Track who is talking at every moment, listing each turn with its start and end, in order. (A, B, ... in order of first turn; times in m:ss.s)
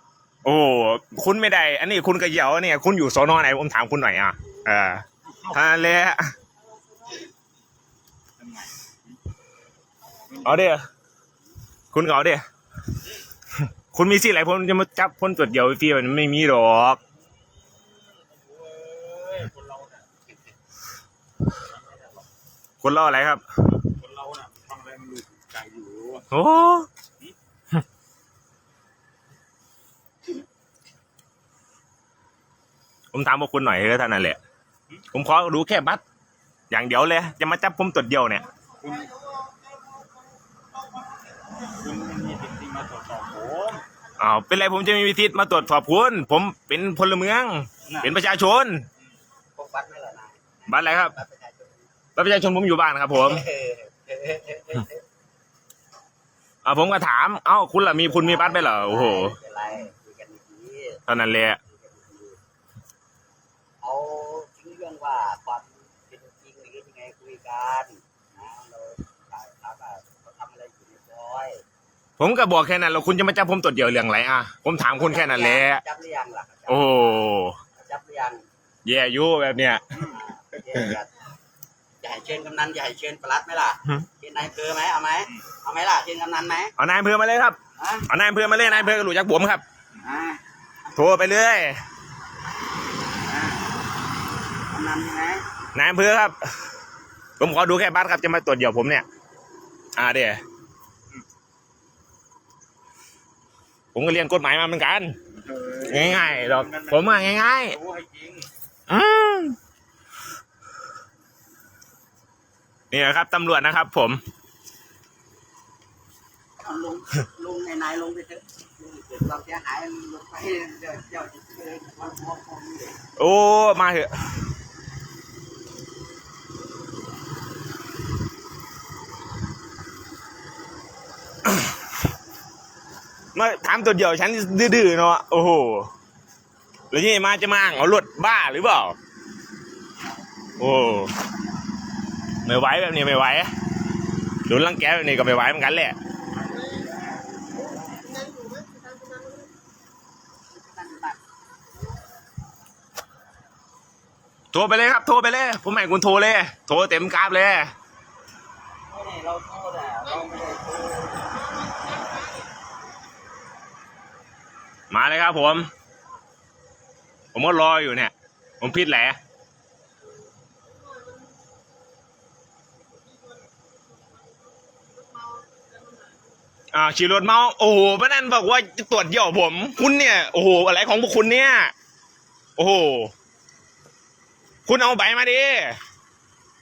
0:00.4-0:06.3 A
0:08.4-0:08.9 B
0:10.4-0:10.8 A
0:11.9-0:12.4 A
0:13.9-0:17.0 A
0:17.6-0:20.0 B
0:21.8-0:22.1 B
0:22.8-0:23.4 A
0:23.8-0:26.2 B
0:26.3-0:26.9 A
0:33.1-0:34.4 A
0:35.1-0:36.0 A
0:36.7-0:38.5 A
0:38.8-0:39.3 B
0:41.6-0:43.8 B
0:44.2-0:48.8 A
0:49.6-0:51.9 C
0:50.7-0:51.1 A
0:52.2-0:53.4 A
0:53.1-0:55.0 C
0:56.6-0:59.4 A
0:58.0-1:01.0 C
1:01.1-1:01.6 A
1:01.7-1:02.4 C
1:03.8-1:11.6 C
1:12.2-1:15.8 A
1:14.9-1:18.4 C
1:16.7-1:17.6 A
1:18.8-1:20.0 A
1:20.0-1:21.1 C
1:22.0-1:26.7 C
1:26.8-1:27.6 A
1:27.8-1:28.8 C
1:28.1-1:29.6 A
1:30.0-1:30.4 C
1:30.9-1:31.8 A
1:33.2-1:33.6 C
1:34.7-1:35.4 C
1:35.7-1:36.3 A
1:37.4-1:39.0 A
1:40.0-1:40.4 A
1:43.9-1:45.1 A
1:45.5-1:48.5 B
1:45.8-1:47.8 A
1:48.9-1:49.6 A
1:52.9-1:54.2 A
1:56.6-2:03.0 C
2:03.2-2:04.1 A
2:13.3-2:15.9 A
2:16.9-2:19.0 A
2:20.6-2:21.1 A
2:22.4-2:23.5 A
2:24.4-2:26.0 A
2:28.3-2:29.4 B
2:30.5-2:31.2 C
2:34.5-2:37.7 A
2:38.9-2:41.2 C
2:44.9-2:45.7 A
2:47.3-2:49.2 A
2:53.1-2:53.4 B
2:55.0-2:56.1 B
2:56.7-3:01.7 A
3:02.6-3:03.1 A
3:04.6-3:05.8 A